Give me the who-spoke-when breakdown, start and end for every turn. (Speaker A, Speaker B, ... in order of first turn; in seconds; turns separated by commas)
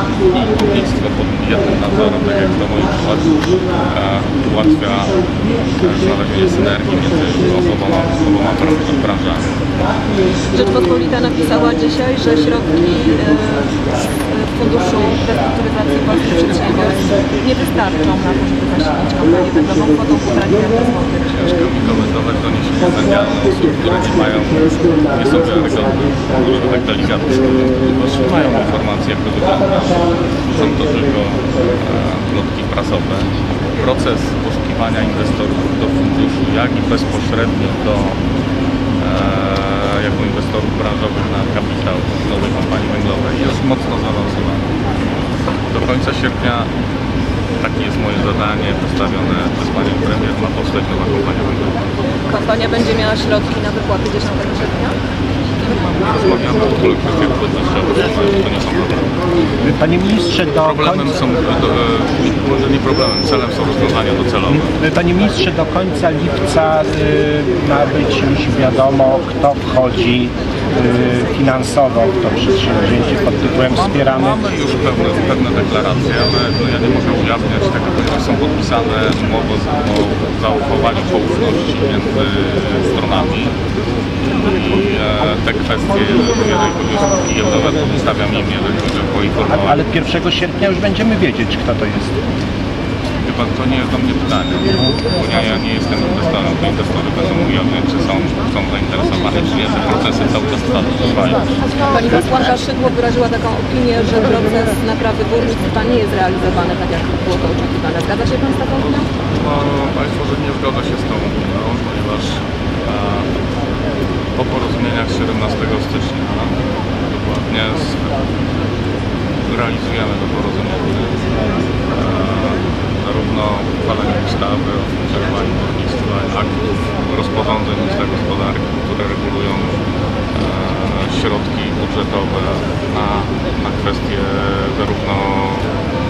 Speaker A: 0.2-9.7, Speaker B: 10.4-21.3, Speaker A: 21.3-38.2, Speaker A: 39.0-44.7, Speaker A: 45.7-46.7, Speaker A: 47.6-51.8, Speaker B: 52.3-55.0, Speaker A: 55.6-59.2, Speaker C: 59.6-61.1, Speaker A: 60.6-64.7, Speaker C: 64.7-74.4, Speaker A: 73.7-83.5, Speaker A: 84.2-89.8, Speaker C: 89.6-92.1, Speaker A: 93.2-101.5, Speaker B: 101.8-109.0, Speaker A: 108.8-113.3, Speaker A: 114.3-116.6, Speaker A: 117.3-118.1, Speaker A: 119.5-121.2, Speaker A: 121.8-129.8, Speaker A: 130.3-135.8